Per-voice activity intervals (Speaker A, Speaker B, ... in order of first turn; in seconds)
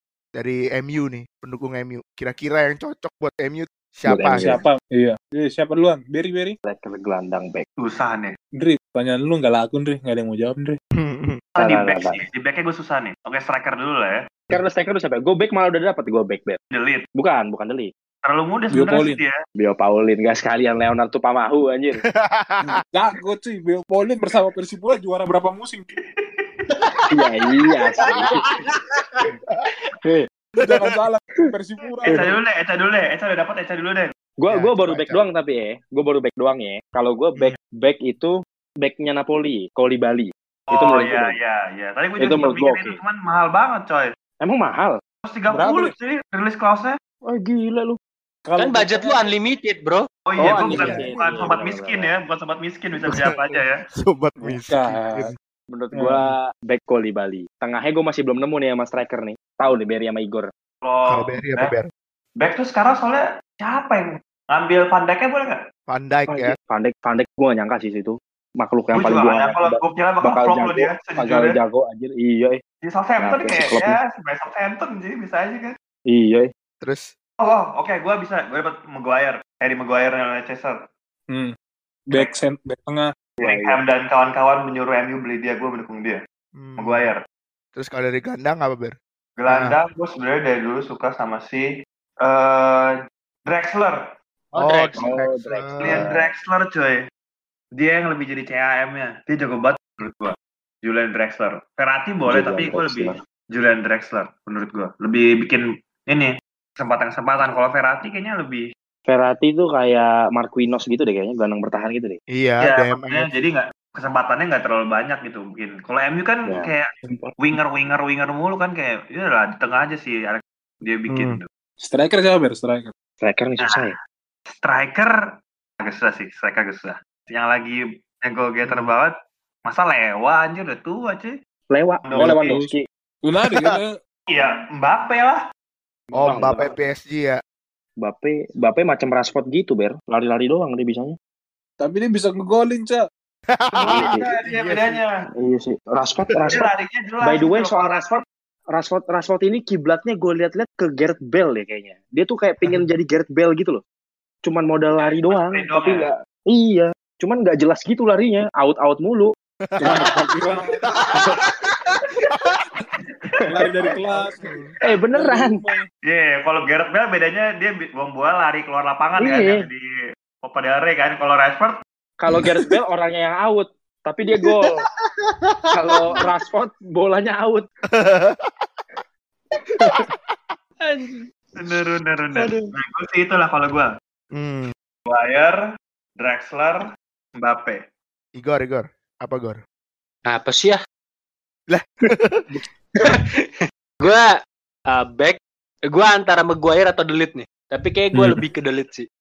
Speaker A: 0.3-4.5, 11.0-11.4, 22.1-22.8, 30.6-30.9, 34.5-35.2, 50.8-51.0, 53.0-55.3, 61.1-61.9, 65.9-66.5, 76.8-77.1, 86.6-87.1, 87.8-88.9, 89.5-89.7, 94.6-96.0, 112.3-113.3, 121.1-121.4, 133.5-133.8, 136.1-137.4, 143.5-145.0, 159.7-160.2, 160.8-161.3, 162.3-162.6, 164.1-164.7, 177.9-178.5, 179.8-180.1, 184.3-184.7, 188.4-189.6, 191.7-192.4
Speaker B: 4.0-4.6, 6.6-7.7, 11.6-12.2, 14.5-16.6, 17.1-17.9, 19.6-22.0, 27.1-28.4, 34.4-41.3, 42.2-43.0, 44.4-45.0, 47.2-48.0, 50.4-52.1, 55.7-60.5, 66.3-72.6, 73.2-73.9, 76.1-76.5, 83.4-83.8, 95.0-96.3, 102.3-103.2, 109.1-112.2, 116.5-117.3, 123.2-124.0, 131.7-132.8, 136.2-136.7, 138.0-141.2, 143.8-144.3, 145.3-146.7, 147.2-153.8, 154.4-159.3, 164.8-165.6, 169.2-169.6, 172.2-174.8, 175.7-177.7
Speaker C: 4.4-6.5, 8.6-10.8, 18.7-19.2, 22.6-25.8, 30.6-32.4, 45.5-45.9, 48.4-49.2, 50.6-51.5, 54.4-55.3, 55.9-56.3, 82.1-83.1, 121.8-122.9, 132.2-134.0, 136.1-136.5, 141.8-143.0, 159.8-161.4, 163.5-164.4, 164.9-165.8
Speaker D: 7.8-8.3, 11.6-14.2, 16.7-17.0, 18.2-19.3, 26.2-26.4, 28.2-29.2, 32.0-34.1, 40.7-44.1, 45.3-47.0, 50.3-53.8, 60.8-61.7, 62.4-65.6, 68.9-71.6, 72.8-75.7, 77.4-80.8, 83.4-86.2, 86.8-87.2, 89.4-91.6, 92.2-92.9, 93.5-94.0, 94.5-95.0, 95.8-97.0, 97.8-100.3, 100.8-108.7, 112.6-121.4, 123.6-124.0, 124.6-125.1, 125.8-129.1, 129.7-131.3, 132.0-132.6, 134.3-135.4, 143.8-145.3, 146.5-148.2, 155.0-156.1, 166.1-171.7, 181.6-183.9, 185.1-185.6, 186.2-186.8, 187.4-187.8
Speaker E: 28.0-28.5, 48.6-50.0, 175.2-176.0, 180.8-181.2, 182.3-182.7, 190.3-190.8, 193.0-194.3, 194.9-195.4, 195.9-199.1